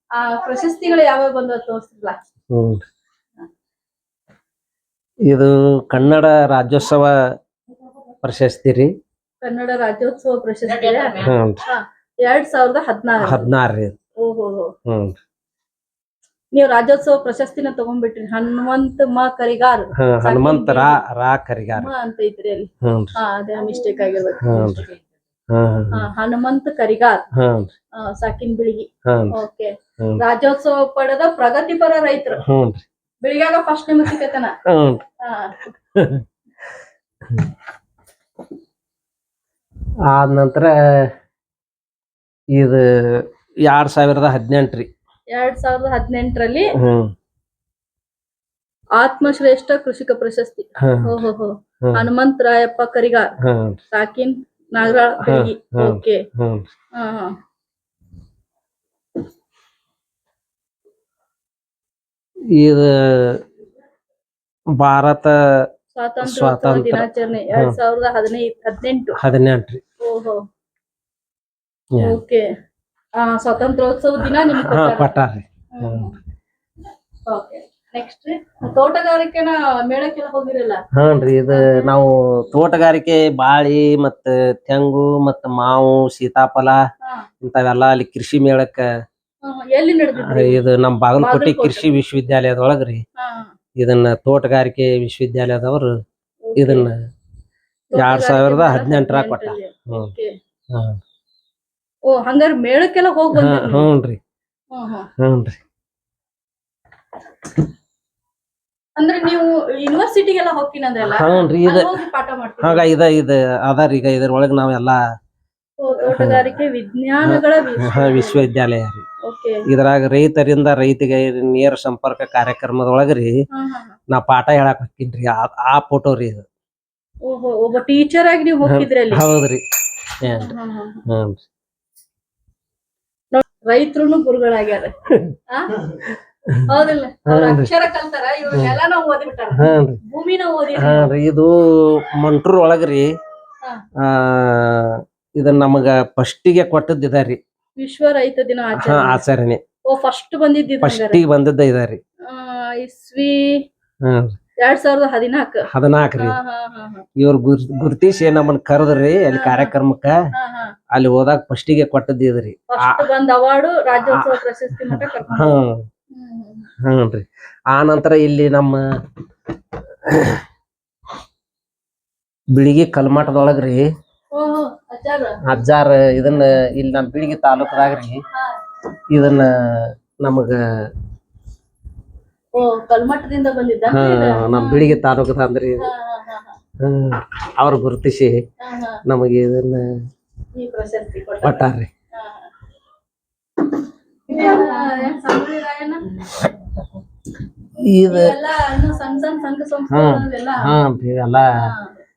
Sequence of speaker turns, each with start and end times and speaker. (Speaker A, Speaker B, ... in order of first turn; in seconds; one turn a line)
Speaker A: 0.1-2.2
Speaker B: 2.5-2.8
Speaker B: 5.3-7.1
Speaker B: 8.2-8.9
Speaker A: 9.4-13.5
Speaker B: 11.2-11.6
Speaker B: 13.2-14.0
Speaker A: 14.2-14.7
Speaker B: 14.8-15.2
Speaker A: 16.5-21.0
Speaker B: 19.9-21.9
Speaker A: 21.7-24.8
Speaker B: 22.8-23.1
Speaker B: 24.4-24.9
Speaker B: 25.5-26.1
Speaker A: 25.9-27.2
Speaker B: 27.3-27.7
Speaker A: 27.9-32.4
Speaker B: 29.1-29.3
Speaker B: 32.4-32.8
Speaker A: 33.2-34.5
Speaker B: 34.7-35.0
Speaker A: 35.2-35.7
Speaker B: 35.9-36.2
Speaker B: 37.2-37.5
Speaker B: 40.1-41.1
Speaker B: 42.5-44.9
Speaker A: 45.3-46.7
Speaker B: 46.8-47.1
Speaker A: 49.0-53.3
Speaker B: 50.8-51.1
Speaker B: 53.4-53.8
Speaker A: 53.9-56.2
Speaker B: 55.2-56.7
Speaker A: 56.9-57.3
Speaker B: 62.5-63.4
Speaker B: 64.7-65.7
Speaker A: 65.9-69.2
Speaker B: 66.2-67.8
Speaker B: 69.2-69.8
Speaker A: 70.0-70.4
Speaker A: 72.0-72.4
Speaker A: 73.2-75.1
Speaker B: 74.2-76.1
Speaker A: 75.7-76.1
Speaker A: 77.3-80.8
Speaker B: 80.9-86.8
Speaker A: 81.5-81.9
Speaker B: 87.4-88.8
Speaker A: 89.4-90.6
Speaker B: 90.2-93.0
Speaker A: 91.2-92.0
Speaker A: 93.2-93.5
Speaker B: 93.8-96.0
Speaker A: 96.4-96.9
Speaker B: 96.6-97.0
Speaker A: 97.9-100.3
Speaker B: 98.0-100.1
Speaker B: 100.7-101.0
Speaker A: 102.1-103.9
Speaker B: 103.3-104.2
Speaker A: 104.7-105.1
Speaker B: 105.2-105.6
Speaker A: 109.0-112.8
Speaker B: 111.0-111.9
Speaker B: 112.6-115.0
Speaker A: 115.8-118.5
Speaker B: 116.0-116.6
Speaker B: 117.2-119.0
Speaker A: 119.2-119.6
Speaker B: 119.7-123.3
Speaker A: 123.5-123.9
Speaker B: 124.1-126.5
Speaker A: 127.2-129.2
Speaker B: 128.7-130.5
Speaker A: 130.3-131.0
Speaker B: 131.1-131.4
Speaker A: 133.3-134.9
Speaker B: 135.1-135.3
Speaker A: 135.5-135.8
Speaker B: 135.9-136.7
Speaker A: 136.7-141.1
Speaker B: 137.3-137.7
Speaker B: 139.5-140.0
Speaker B: 140.8-143.1
Speaker B: 144.0-147.4
Speaker A: 147.8-149.2
Speaker B: 148.7-149.6
Speaker A: 149.9-151.2
Speaker B: 150.8-152.0
Speaker A: 152.2-153.6
Speaker B: 154.0-154.3
Speaker A: 154.6-157.0
Speaker B: 155.7-156.4
Speaker B: 157.2-160.2
Speaker A: 159.3-159.7
Speaker A: 160.3-160.7
Speaker B: 160.9-163.0
Speaker A: 162.7-165.6
Speaker B: 164.0-164.3
Speaker B: 164.9-165.8
Speaker A: 166.1-166.7
Speaker B: 166.8-168.8
Speaker B: 170.1-170.4
Speaker B: 172.5-173.9
Speaker A: 174.3-175.4
Speaker B: 175.4-178.2
Speaker B: 179.1-180.6
Speaker A: 182.5-185.0
Speaker B: 183.9-185.9
Speaker A: 185.8-186.6
Speaker B: 186.8-188.4
Speaker A: 188.6-189.0
Speaker B: 189.1-189.9
Speaker A: 190.6-192.5
Speaker B: 191.4-191.9
Speaker A: 194.3-196.2
Speaker B: 197.8-198.3
Speaker A: 198.1-200.7
Speaker B: 199.9-201.5
Speaker A: 201.6-201.9